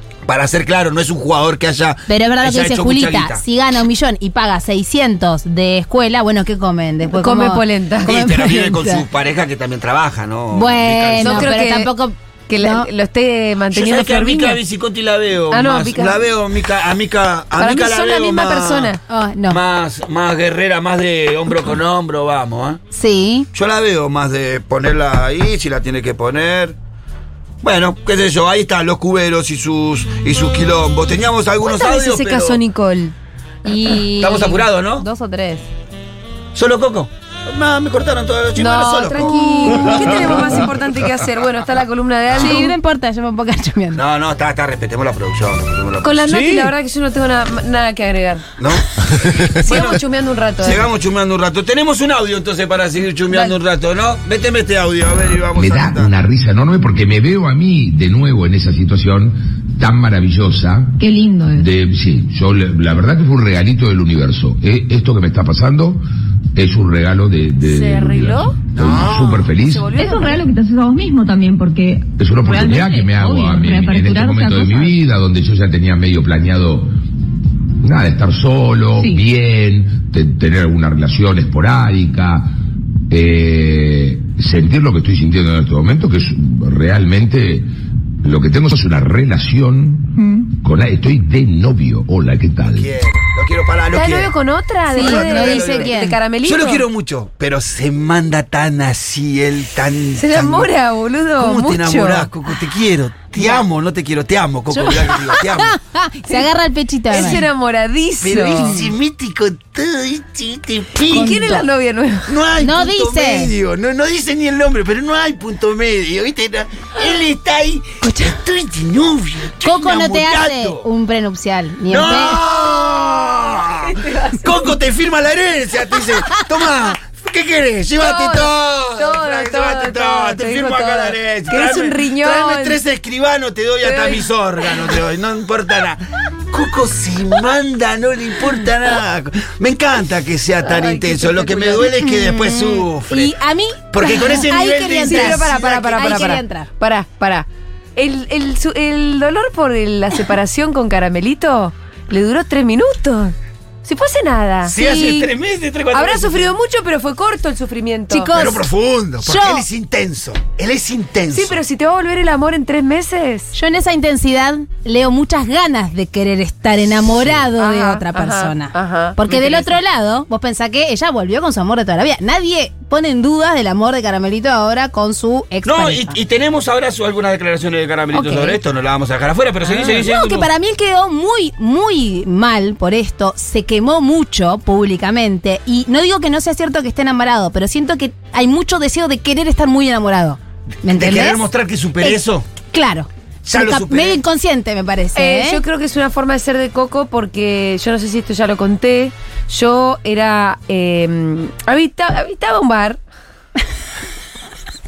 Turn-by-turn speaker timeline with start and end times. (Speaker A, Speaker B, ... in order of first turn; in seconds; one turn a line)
Speaker A: 0.2-3.4
Speaker B: 2.1-9.0
Speaker C: 7.1-8.2
Speaker A: 8.0-11.5
Speaker B: 10.5-12.9
Speaker C: 11.2-11.9
Speaker C: 12.5-14.6
Speaker A: 13.7-18.9
Speaker C: 15.5-16.2
Speaker C: 17.6-19.0
Speaker B: 19.1-19.6
Speaker A: 19.5-22.8
Speaker B: 22.9-23.5
Speaker A: 23.5-26.8
Speaker A: 27.6-32.6
Speaker C: 31.6-33.1
Speaker B: 33.6-35.7
Speaker A: 34.2-35.1
Speaker A: 36.5-40.7
Speaker C: 38.6-42.7
Speaker B: 39.1-40.3
Speaker B: 42.4-44.0
Speaker A: 43.9-46.5
Speaker C: 46.0-48.4
Speaker A: 48.6-50.0
Speaker C: 49.6-50.8
Speaker A: 50.6-56.1
Speaker D: 55.5-66.0
Speaker E: 61.0-61.7
Speaker D: 66.5-69.9
Speaker C: 67.6-68.5
Speaker A: 68.7-69.5
Speaker C: 69.6-70.4
Speaker E: 69.9-75.0
Speaker D: 72.2-76.9
Speaker D: 77.8-82.5
Speaker E: 79.0-79.2
Speaker D: 83.1-87.7
Speaker D: 88.2-92.9
Speaker E: 90.2-90.4
Speaker A: 92.6-94.3
Speaker C: 93.9-96.8
Speaker B: 94.9-96.2
Speaker A: 95.0-100.7
Speaker C: 100.2-102.3
Speaker A: 101.4-105.8
Speaker B: 104.7-107.5
Speaker C: 107.1-108.8
Speaker A: 108.2-111.4
Speaker B: 111.1-111.7
Speaker C: 111.1-112.3
Speaker A: 112.3-120.8
Speaker B: 112.6-113.5
Speaker B: 119.6-122.4
Speaker A: 121.9-143.4
Speaker C: 123.8-124.4
Speaker C: 128.0-132.8
Speaker C: 133.8-134.2
Speaker C: 140.6-141.9
Speaker B: 141.9-146.7
Speaker A: 143.9-146.4
Speaker C: 145.1-155.3
Speaker A: 154.7-156.5
Speaker C: 155.9-158.3
Speaker B: 158.1-158.7
Speaker A: 158.3-161.6
Speaker B: 159.2-159.7
Speaker C: 161.3-163.5
Speaker B: 163.5-176.2
Speaker A: 167.1-167.4
Speaker C: 167.6-169.8
Speaker A: 175.6-180.5
Speaker B: 178.1-178.6
Speaker B: 179.6-191.4
Speaker A: 190.8-192.4
Speaker B: 192.7-195.6
Speaker A: 193.4-194.2
Speaker C: 195.2-203.0